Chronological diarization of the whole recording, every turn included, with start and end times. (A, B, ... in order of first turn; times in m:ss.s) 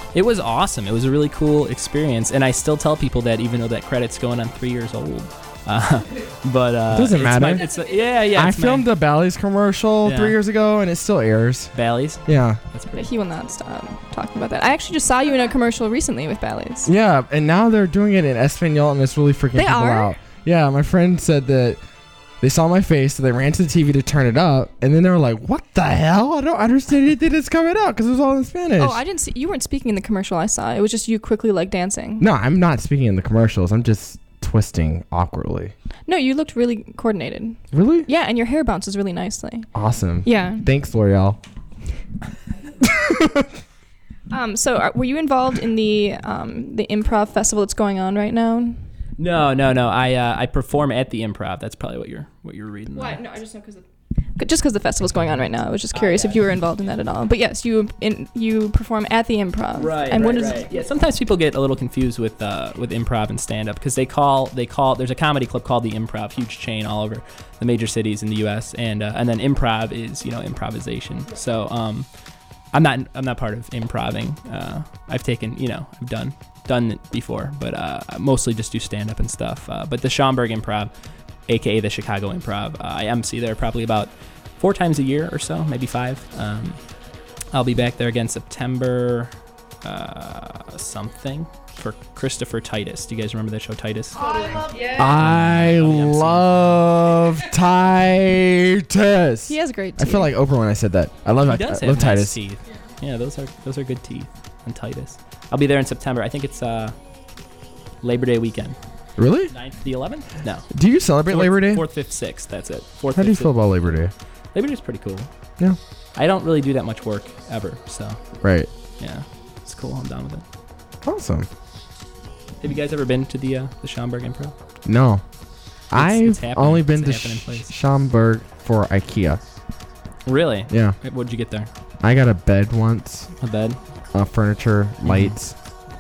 0:00.1-0:08.9 A
0:06.9-0:07.7 B
0:08.3-0:11.7 B
0:10.0-0:10.4 A
0:11.8-0:13.1 A
0:12.3-0:12.6 B
0:13.0-0:16.9 C
0:16.9-0:21.8 B
0:19.6-0:20.2 C
0:22.4-0:29.0 B
0:28.8-0:32.3 C
0:32.2-0:35.7 B
0:36.1-0:39.7 C
0:37.7-0:38.1 B
0:39.8-0:41.4 B
0:40.2-0:40.6 C
0:42.8-0:43.5 B
0:44.3-0:48.8 C
0:49.2-0:53.2 A
0:52.9-0:53.8 C
0:54.4-1:00.7 C
0:55.9-0:56.4 A
0:59.8-1:12.1 A
1:12.7-1:20.9 A
1:21.5-1:26.8 A
1:27.5-1:29.3 A
1:29.8-1:34.5 A
1:34.2-1:35.1 C
1:34.9-1:42.4 B
1:35.0-1:36.8 A
1:39.5-1:40.3 C
1:41.5-1:47.0 A
1:48.0-1:48.8 A
1:49.2-1:49.5 B
1:49.5-1:50.7 A
1:50.7-1:51.8 B
1:51.3-1:54.0 A
1:53.2-1:54.1 B
1:54.5-1:55.3 A
1:56.2-1:58.2 A
1:58.4-1:58.7 B
1:59.0-2:00.4 A
2:01.0-2:01.5 B
2:02.6-2:04.6 A
2:04.8-2:05.2 B
2:05.9-2:09.4 B
2:06.0-2:07.7 A
2:10.2-2:11.7 A
2:10.7-2:11.0 B
2:12.0-2:13.3 B
2:13.4-2:13.8 A
2:14.1-2:15.6 B
2:15.0-2:15.4 A